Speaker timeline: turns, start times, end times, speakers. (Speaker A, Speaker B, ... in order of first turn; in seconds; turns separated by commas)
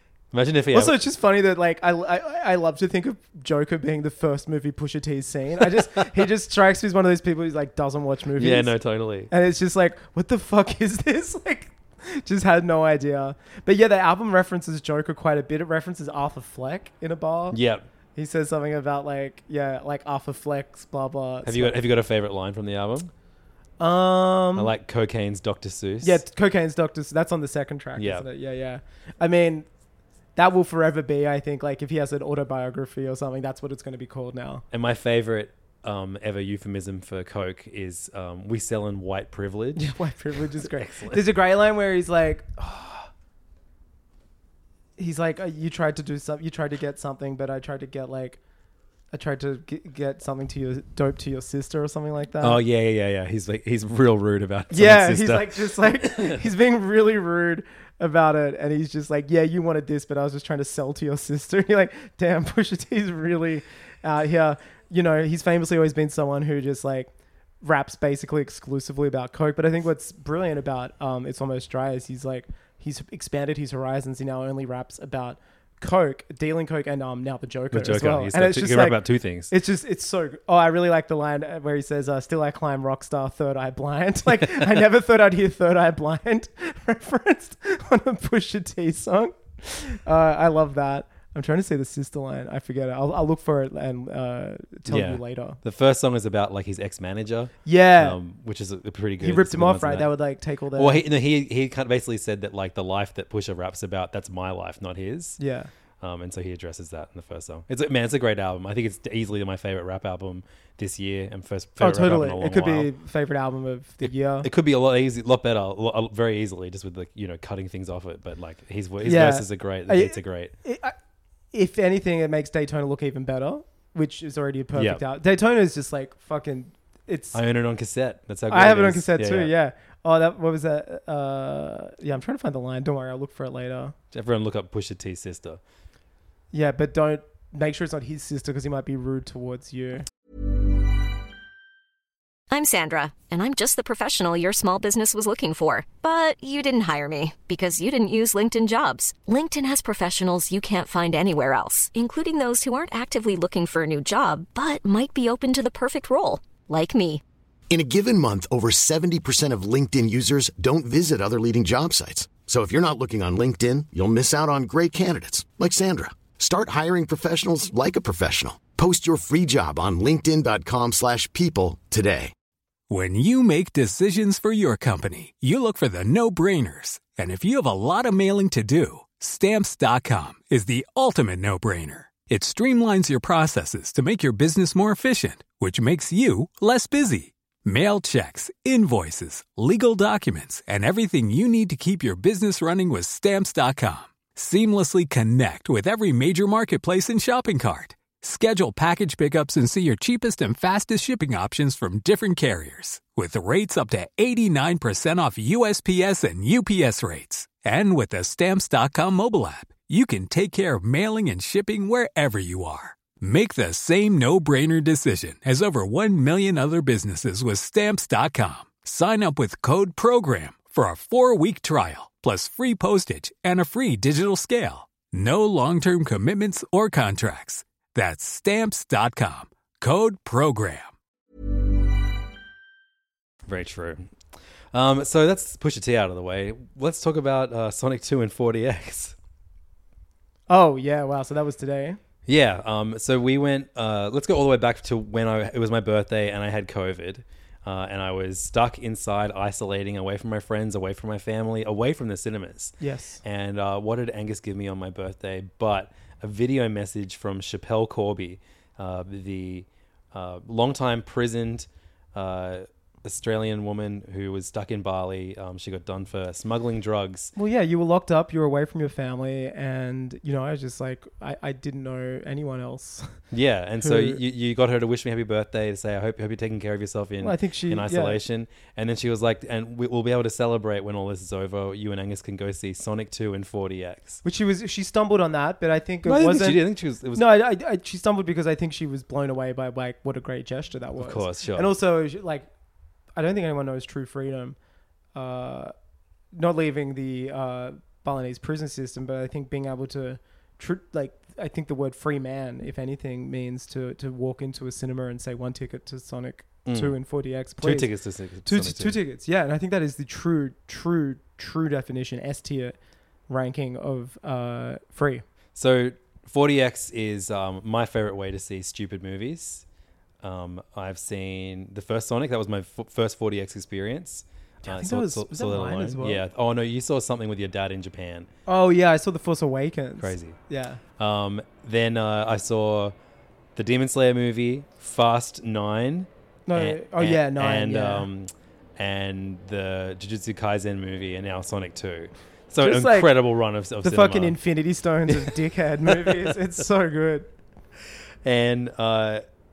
Speaker A: 0.3-1.0, Speaker B: 0.7-8.7, Speaker A: 8.4-9.3, Speaker B: 9.3-17.6, Speaker A: 17.5-17.9, Speaker B: 18.1-21.8, Speaker A: 21.4-23.1, Speaker B: 23.8-24.7, Speaker A: 24.5-26.2, Speaker B: 26.0-29.6, Speaker A: 27.9-28.2, Speaker B: 30.4-34.6, Speaker A: 34.7-40.0, Speaker B: 39.8-43.1, Speaker A: 40.5-41.3, Speaker B: 45.0-48.4, Speaker B: 49.1-52.6, Speaker A: 52.4-56.4, Speaker B: 54.7-67.1, Speaker B: 67.6-95.6, Speaker A: 77.7-79.5, Speaker A: 84.4-84.7, Speaker A: 94.9-100.1, Speaker B: 97.6-98.2, Speaker B: 99.2-101.0, Speaker A: 100.7-105.4, Speaker B: 105.4-105.7, Speaker A: 106.0-112.9, Speaker B: 111.8-114.5, Speaker A: 114.0-120.5, Speaker B: 119.0-120.9, Speaker B: 121.5-127.4, Speaker A: 124.7-125.0, Speaker A: 127.3-129.5, Speaker B: 128.5-133.9, Speaker A: 134.1-135.6, Speaker B: 136.5-140.1, Speaker C: 142.5-157.2, Speaker D: 157.7-172.3, Speaker E: 172.9-230.9, Speaker A: 233.4-234.1, Speaker A: 234.7-239.2, Speaker B: 240.5-242.0, Speaker A: 242.2-267.3, Speaker B: 252.8-253.2, Speaker B: 267.4-273.2, Speaker A: 273.3-284.2, Speaker B: 273.8-274.2, Speaker B: 277.2-278.2, Speaker B: 284.2-292.5, Speaker A: 286.0-287.2, Speaker A: 291.0-291.7, Speaker B: 293.1-294.6, Speaker B: 295.1-295.7, Speaker B: 296.3-307.9, Speaker A: 306.6-306.9, Speaker A: 307.6-309.0, Speaker B: 308.4-312.8, Speaker B: 313.3-315.2, Speaker A: 315.5-319.6, Speaker A: 320.2-328.3, Speaker B: 324.6-326.2, Speaker B: 328.5-330.8, Speaker A: 330.0-330.4, Speaker A: 331.0-332.9, Speaker A: 333.6-344.4, Speaker B: 336.5-338.1, Speaker B: 342.6-343.1, Speaker B: 343.8-347.3, Speaker A: 345.1-346.3, Speaker A: 348.2-349.2